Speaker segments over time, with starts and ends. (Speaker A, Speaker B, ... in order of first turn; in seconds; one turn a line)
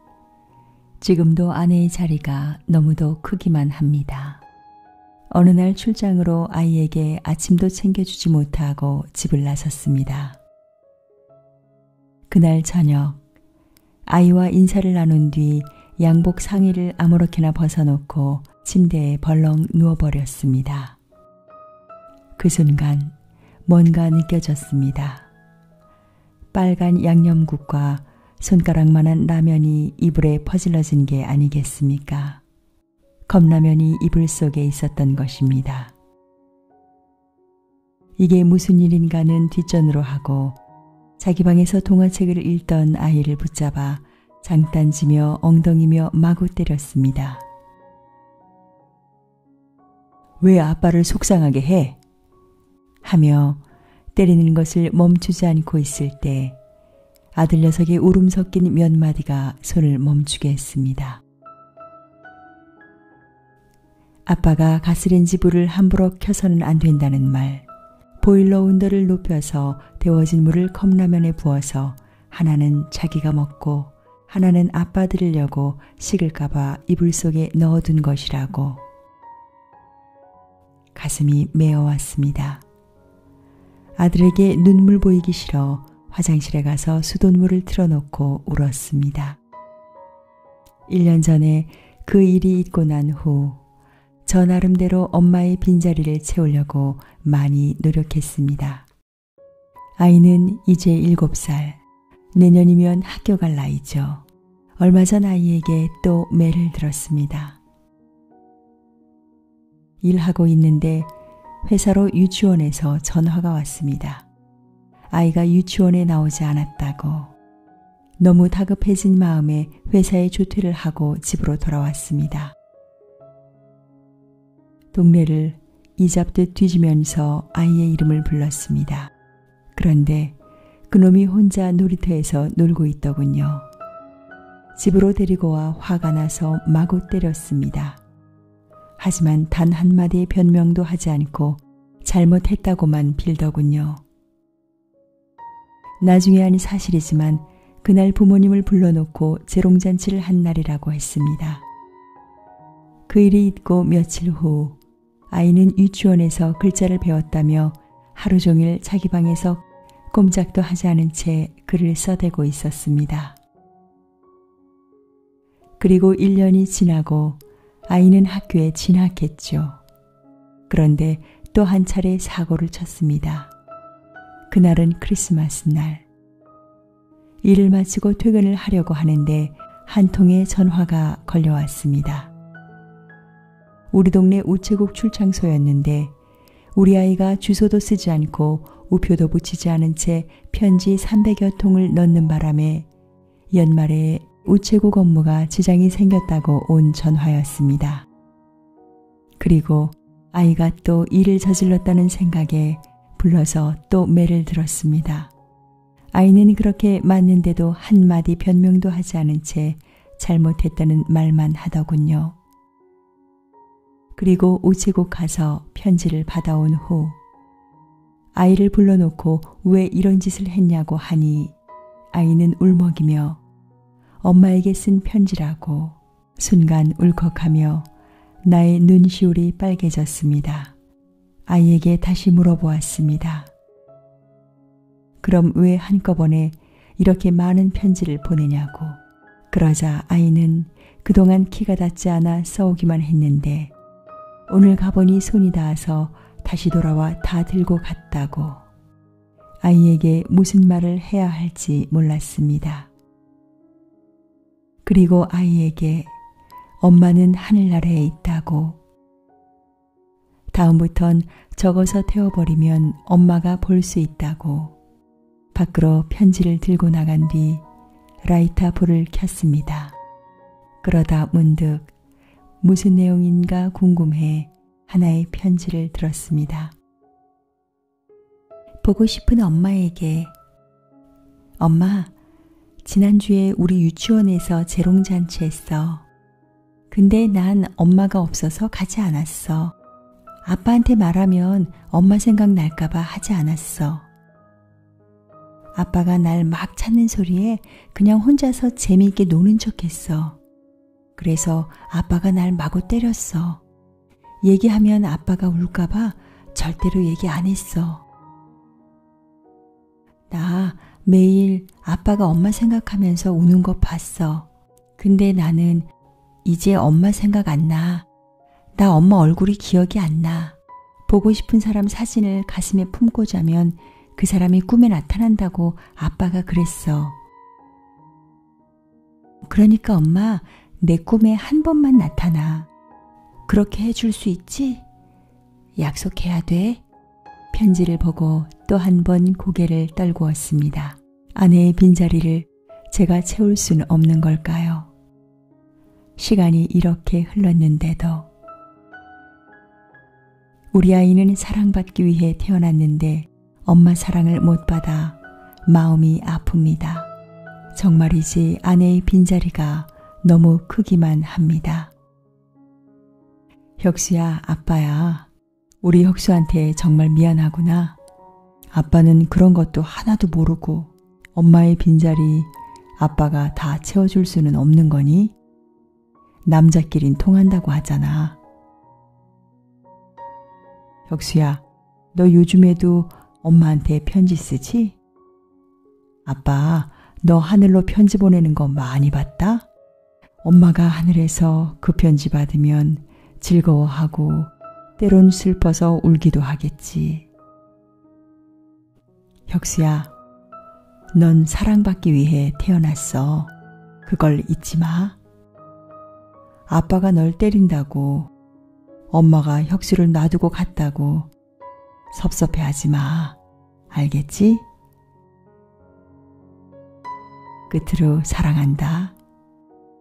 Speaker A: 1.0-4.4
Speaker A: 5.3-10.4
Speaker A: 12.3-13.2
Speaker A: 14.1-21.0
Speaker A: 22.4-23.1
Speaker A: 23.7-25.3
Speaker A: 26.5-32.4
Speaker A: 33.3-35.9
Speaker A: 38.2-40.6
Speaker A: 41.2-47.4
Speaker A: 50.4-52.0
Speaker A: 53.0-53.6
Speaker A: 54.1-56.6
Speaker A: 57.4-61.2
Speaker A: 64.3-67.7
Speaker A: 68.2-78.8
Speaker A: 81.0-82.6
Speaker A: 84.0-89.4
Speaker A: 90.9-93.6
Speaker A: 94.3-98.9
Speaker A: 100.0-101.8
Speaker A: 102.3-104.2
Speaker A: 104.8-107.6
Speaker A: 110.0-111.1
Speaker A: 111.6-114.3
Speaker A: 115.1-117.3
Speaker A: 118.2-122.5
Speaker A: 124.9-129.1
Speaker A: 129.7-130.3
Speaker A: 130.9-133.7
Speaker A: 134.8-138.0
Speaker A: 139.0-144.0
Speaker A: 146.0-151.6
Speaker A: 153.1-154.8
Speaker A: 155.3-163.4
Speaker A: 165.8-169.8
Speaker A: 170.7-173.5
Speaker A: 174.5-176.1
Speaker A: 177.4-182.3
Speaker A: 183.9-186.1
Speaker A: 186.8-192.9
Speaker A: 193.5-198.1
Speaker A: 199.4-205.3
Speaker A: 206.1-212.4
Speaker A: 214.2-217.2
Speaker A: 218.3-221.5
Speaker A: 222.1-223.4
Speaker A: 224.2-227.9
Speaker A: 228.4-230.7
Speaker A: 231.5-233.5
Speaker A: 235.2-239.0
Speaker A: 239.5-243.7
Speaker A: 244.5-248.6
Speaker A: 249.6-252.9
Speaker A: 254.8-256.1
Speaker A: 256.8-258.8
Speaker A: 260.5-264.8
Speaker A: 265.5-267.6
Speaker A: 268.2-270.0
Speaker A: 270.8-271.9
Speaker A: 272.6-276.8
Speaker A: 278.8-280.3
Speaker A: 281.6-282.1
Speaker A: 282.8-286.1
Speaker A: 286.9-289.8
Speaker A: 290.5-294.1
Speaker A: 295.8-300.4
Speaker A: 301.2-303.6
Speaker A: 304.4-308.1
Speaker A: 310.3-314.5
Speaker A: 315.0-315.9
Speaker A: 316.4-318.1
Speaker A: 318.8-320.6
Speaker A: 321.1-327.2
Speaker A: 329.4-332.7
Speaker A: 333.5-334.8
Speaker A: 335.8-336.8
Speaker A: 337.5-344.9
Speaker A: 346.2-348.3
Speaker A: 350.7-357.1
Speaker A: 357.7-361.9
Speaker A: 363.8-365.3
Speaker A: 365.8-368.0
Speaker A: 368.7-375.4
Speaker A: 376.5-378.4
Speaker A: 381.1-385.0
Speaker A: 386.3-389.7
Speaker A: 390.4-397.3
Speaker A: 399.5-400.1
Speaker A: 401.1-403.5
Speaker A: 404.1-405.2
Speaker A: 406.7-408.3
Speaker A: 409.1-411.3
Speaker A: 412.1-413.4
Speaker A: 413.9-414.6
Speaker A: 417.7-419.1